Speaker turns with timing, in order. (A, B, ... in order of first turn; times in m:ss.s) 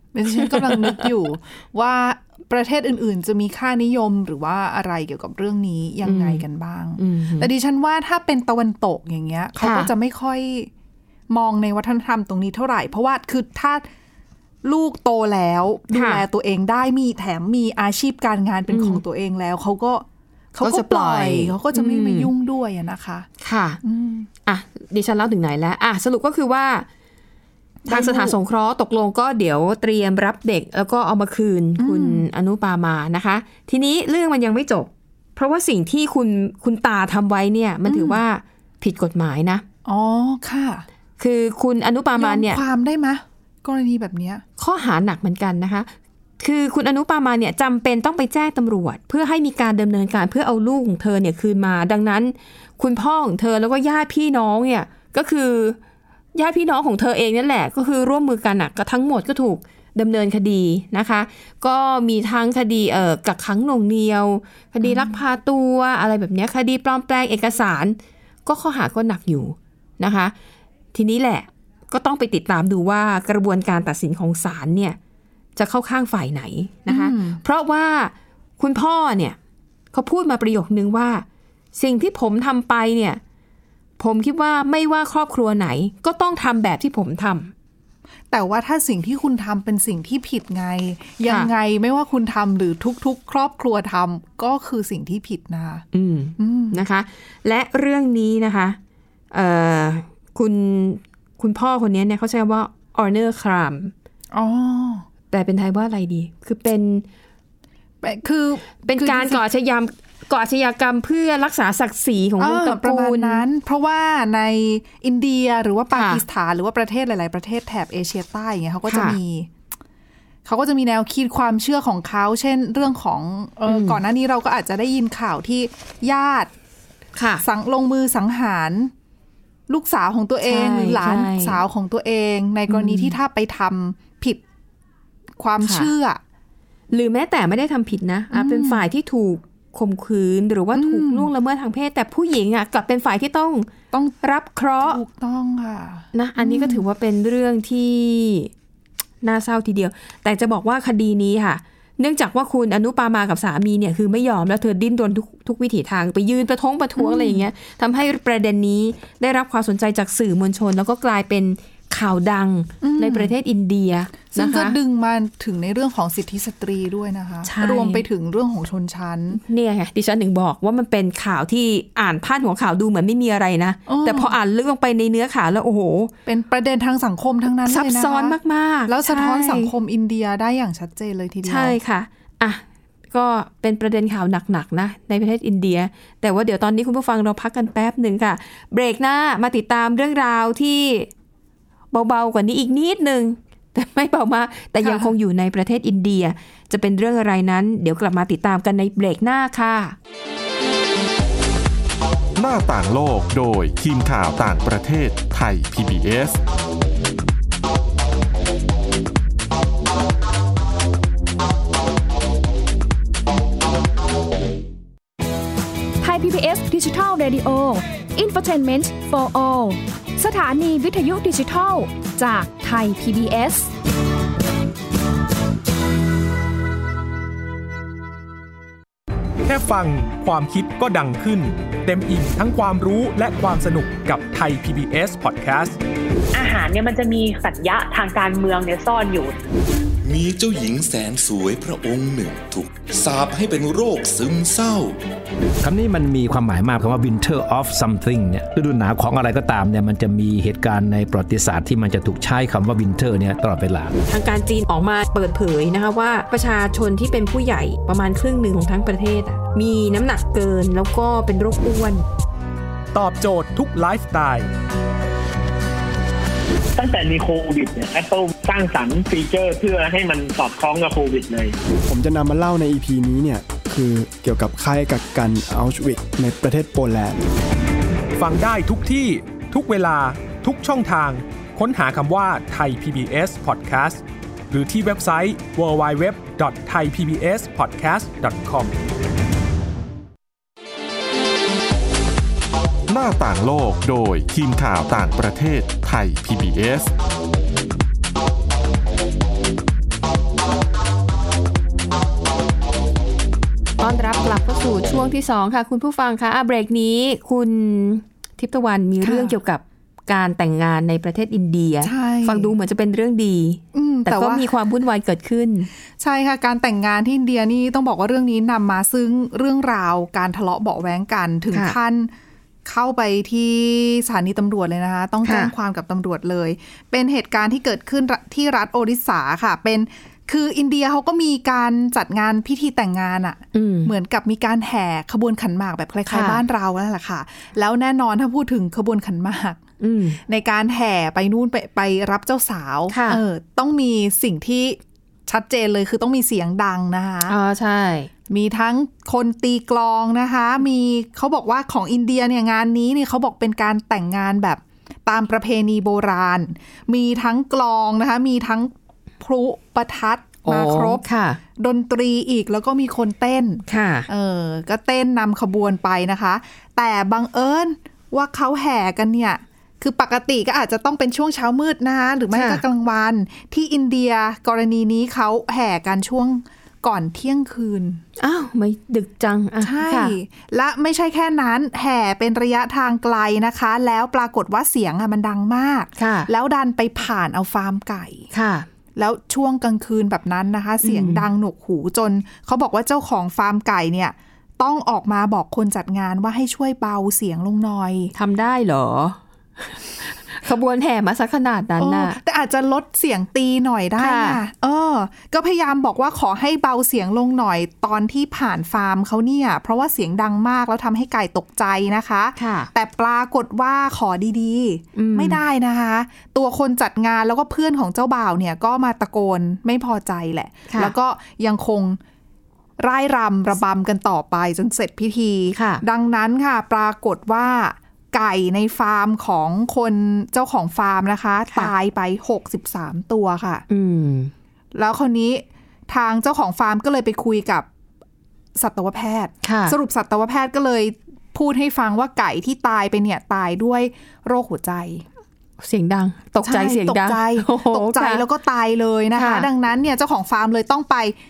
0:00.1-0:10.7 A
0:00.3-0:01.1 B
0:06.0-0:06.4 B
0:07.0-0:07.5 B
0:09.6-0:09.9 B
0:11.3-0:13.9 A
0:14.6-0:23.3 A
0:15.9-0:16.2 B
0:18.7-0:19.0 B
0:20.6-0:22.3 B
0:23.4-0:23.8 B
0:23.8-0:24.3 A
0:24.5-0:26.9 B
0:27.8-0:28.4 A
0:27.9-0:39.6 B
0:31.8-0:32.2 A
0:37.9-0:38.2 A
0:39.8-0:40.9 A
0:41.2-0:42.6 B
0:42.2-0:44.4 A
0:44.6-0:55.8 B
0:56.3-1:10.3 B
1:04.8-1:05.2 A
1:10.9-1:15.0 B
1:15.6-1:19.4 B
1:16.9-1:17.4 A
1:19.9-1:23.2 B
1:24.0-1:27.5 B
1:28.3-1:35.9 A
1:31.2-1:31.5 B
1:35.9-1:38.8 B
1:36.4-1:36.8 A
1:39.3-1:43.9 B
1:44.3-1:45.1 A
1:45.3-1:47.1 B
1:48.0-1:49.4 A
1:48.8-1:53.4 B
1:52.4-1:59.5 A
1:55.9-1:56.2 B
1:58.9-1:59.2 B
2:00.4-2:06.5 A
2:03.7-2:04.0 B
2:07.2-2:07.4 B
2:07.4-2:08.9 A
2:09.7-2:14.4 A
2:10.4-2:11.6 B
2:12.7-2:13.2 B
2:15.4-2:16.2 A
2:15.6-2:15.9 B
2:16.9-2:25.0 B
2:18.3-2:18.9 A
2:20.7-2:21.3 A
2:23.9-2:24.2 A
2:24.8-2:26.8 A
2:26.1-2:28.5 B
2:29.2-2:44.8 B
2:37.0-2:37.4 A
2:42.8-2:43.4 A
2:44.3-2:49.4 A
2:47.4-2:48.0 B
2:49.3-2:56.1 B
2:53.9-2:54.3 A
2:56.2-3:01.8 A
2:57.7-2:59.7 B
3:01.4-3:11.1 B
3:11.9-3:20.0 B
3:14.8-3:15.1 A
3:22.4-3:26.4 C
3:36.0-3:43.7 D
3:49.4-3:55.8 E
3:56.3-3:59.4 F
4:00.0-4:05.0 G
4:05.6-4:14.0 H
4:14.1-4:22.0 B
4:22.9-4:24.5 E
4:26.8-4:31.6 I
4:31.9-4:37.2 J
4:38.2-4:48.8 E
4:52.9-4:56.9 C
5:03.8-5:15.7 B
5:09.0-5:09.4 A
5:11.8-5:12.5 A
5:13.7-5:14.5 A
5:16.0-5:22.1 A
5:22.6-5:39.6 A
5:25.2-5:25.5 B
5:33.5-5:33.9 B
5:36.1-5:36.4 B
5:39.8-5:40.2 B
5:40.3-5:47.4 A
5:42.9-5:43.2 B
5:47.3-5:48.1 B
5:48.3-6:18.0 A
6:00.4-6:01.4 B
6:03.7-6:04.1 B
6:12.3-6:12.6 B
6:18.2-6:20.1 B
6:19.6-6:28.3 A
6:26.0-6:26.3 B
6:28.3-6:28.7 B
6:29.0-6:38.1 A
6:30.8-6:31.3 B
6:38.1-6:42.2 B
6:41.8-7:02.0 A
6:44.0-6:44.4 B
6:52.4-6:52.7 B
6:55.0-6:55.4 B
7:02.8-7:13.6 A
7:05.6-7:05.8 B
7:13.7-7:14.3 B
7:14.7-7:17.7 A
7:18.6-7:25.1 A
7:19.4-7:19.8 B
7:25.6-7:28.2 B
7:26.4-7:31.2 A
7:29.1-7:29.5 B